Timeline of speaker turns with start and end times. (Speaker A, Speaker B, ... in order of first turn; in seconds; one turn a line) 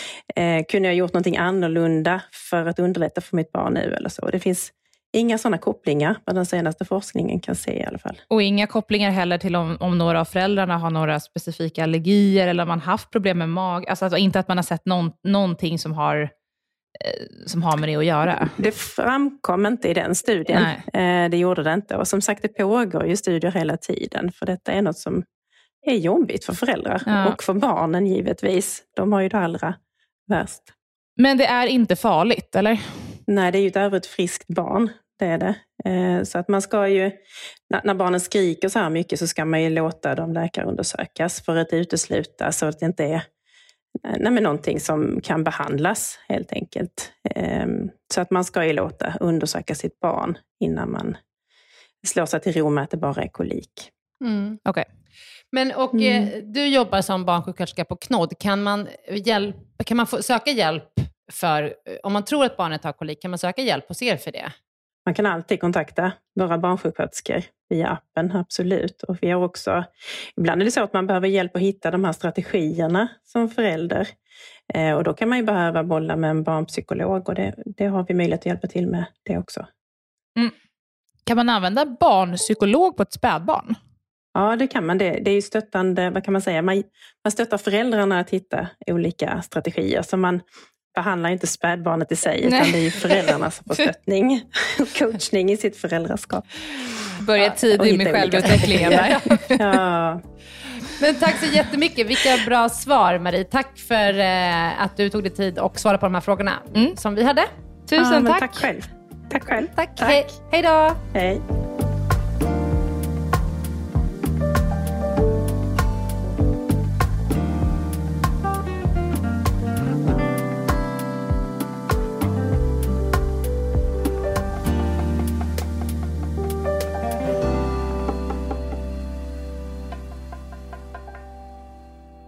Speaker A: 0.3-8.2
Speaker B: 8.3-16.3
Speaker B: 17.0-18.5
Speaker A: 18.5-25.2
Speaker B: 20.5-20.8
Speaker A: 25.8-29.8
Speaker B: 27.1-27.4
Speaker A: 30.3-30.7
Speaker B: 31.2-32.8
Speaker A: 33.3-37.1
Speaker A: 37.7-43.2
Speaker A: 44.0-51.1
Speaker A: 52.0-53.9
Speaker C: 54.2-54.6
Speaker C: 55.5-64.5
Speaker A: 55.9-56.3
Speaker A: 65.0-69.8
Speaker A: 70.4-74.1
Speaker A: 74.7-79.6
Speaker B: 81.2-83.8
Speaker A: 84.3-90.4
Speaker A: 90.9-96.6
Speaker B: 92.4-93.9
Speaker B: 97.2-99.6
Speaker A: 97.4-100.2
Speaker C: 98.7-99.1
Speaker C: 101.0-107.5
Speaker B: 107.9-108.6
Speaker A: 108.0-110.3
Speaker C: 109.6-111.0
Speaker A: 111.1-111.4